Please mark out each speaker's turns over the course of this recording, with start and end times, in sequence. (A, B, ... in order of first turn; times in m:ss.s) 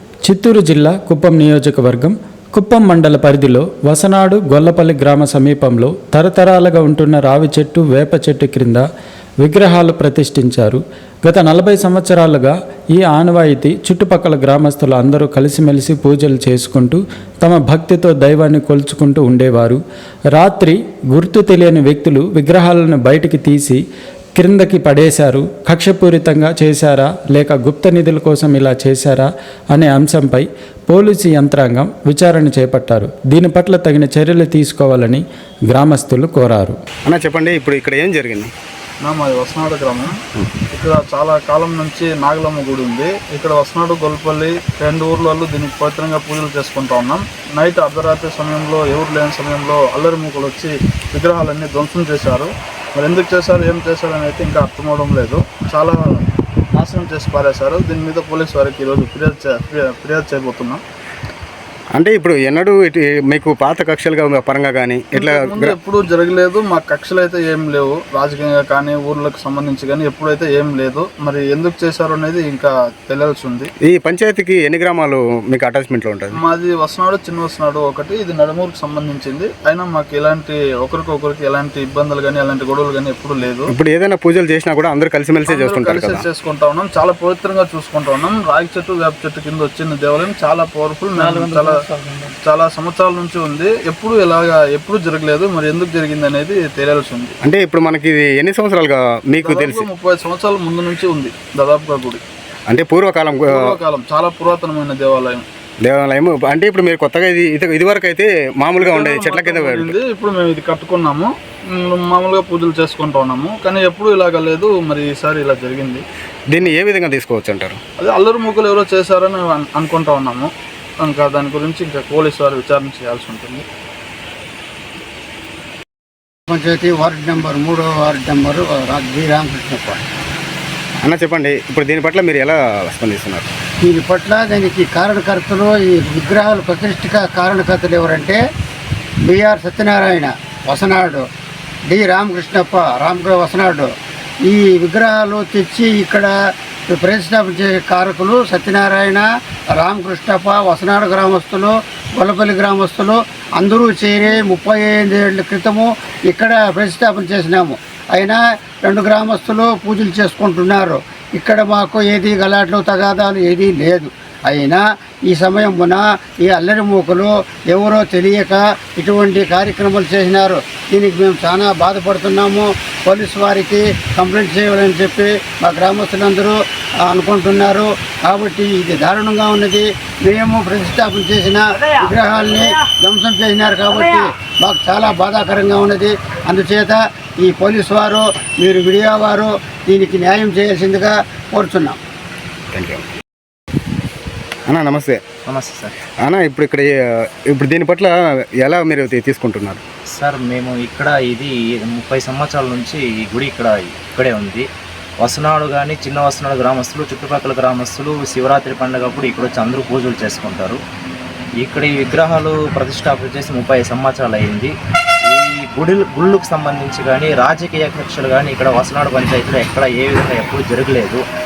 0:00.2-0:08.8 A
0:09.4-0:19.8 A
0:20.3-0:23.8 A
0:24.4-0:36.8 A
0:37.1-0:38.5 B
0:39.0-0:40.2 C
0:40.7-1:00.8 C
1:02.0-1:05.8 B
1:05.2-1:13.7 C
1:13.9-1:16.4 B
1:16.3-1:23.7 C
1:23.7-1:26.3 B
1:25.5-1:31.8 C
1:32.4-1:37.4 C
1:37.4-1:39.9 B
1:39.4-1:42.2 C
1:42.7-1:43.6 B
1:43.5-1:45.4 C
1:45.8-1:50.0 B
1:48.9-1:56.0 C
1:56.5-1:57.8 B
1:58.0-2:03.6 C
2:06.5-2:10.0 D
2:11.0-2:13.5 B
2:13.8-2:18.4 D
2:19.3-2:21.2 D
2:21.9-2:23.9 D
2:24.4-2:26.3 D
2:26.9-3:12.0 D
3:12.7-3:13.0 B
3:14.7-3:15.2 B
3:15.5-3:16.0 E
3:16.2-3:16.9 B
3:17.5-3:19.8 B
3:20.1-3:24.7 E
3:25.2-3:30.8 E
3:31.6-3:34.7 E
3:35.3-3:41.2 E